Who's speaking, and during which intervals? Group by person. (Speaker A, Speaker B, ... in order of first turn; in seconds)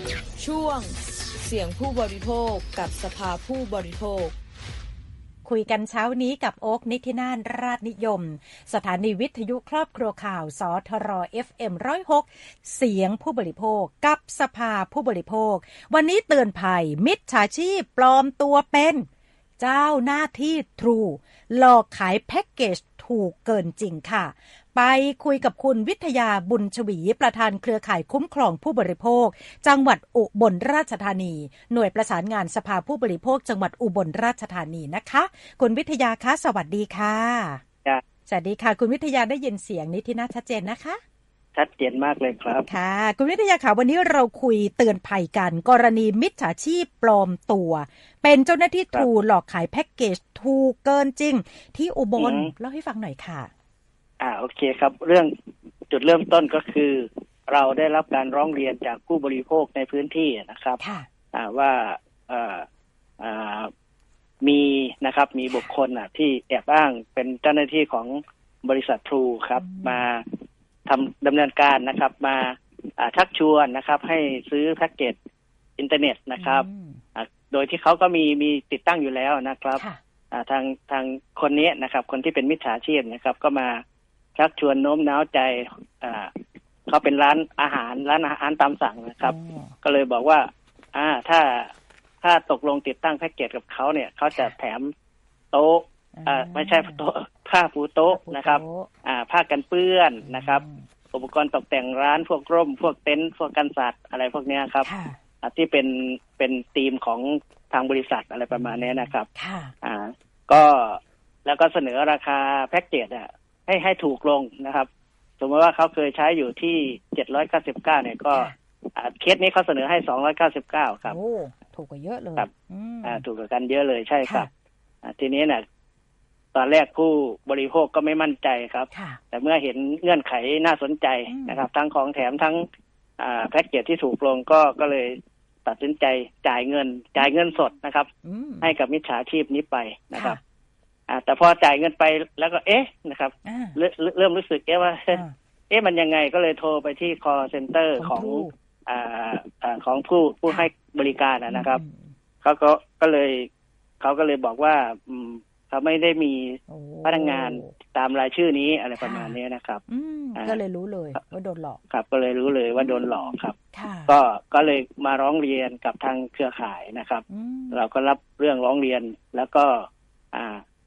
Speaker A: 0.4-4.3
Speaker B: 5.5-19.1, 19.6-37.6, 38.3-41.0, 42.7-53.5, 60.8-61.1, 69.5-70.1, 76.4-77.0, 89.2-89.7, 96.1-97.0, 98.1-98.9, 100.2-100.8, 104.8-105.2, 108.5-109.7, 118.3-118.5, 121.0-123.2, 124.2-124.5, 128.9-129.2, 131.3-131.7, 138.2-138.7, 140.1-140.4, 143.4-143.8, 148.0-148.5, 151.5-152.1, 156.7-157.7, 159.0-161.8, 162.8-164.2, 167.3-167.8
Speaker C: 41.5-42.7, 52.2-52.5, 54.2-55.3, 55.9-60.8, 61.3-62.6, 63.2-63.7, 64.4-75.2, 75.8-83.8, 84.4-86.3, 86.9-91.7, 92.2-94.9, 95.5-104.9, 105.4-109.3, 109.8-114.9, 115.4-121.2, 123.0-124.5, 125.0-125.6, 126.5-132.7, 133.2-138.1, 138.6-140.4, 141.1-151.8, 152.4-153.5, 154.0-159.8, 161.9-163.6, 164.1-170.6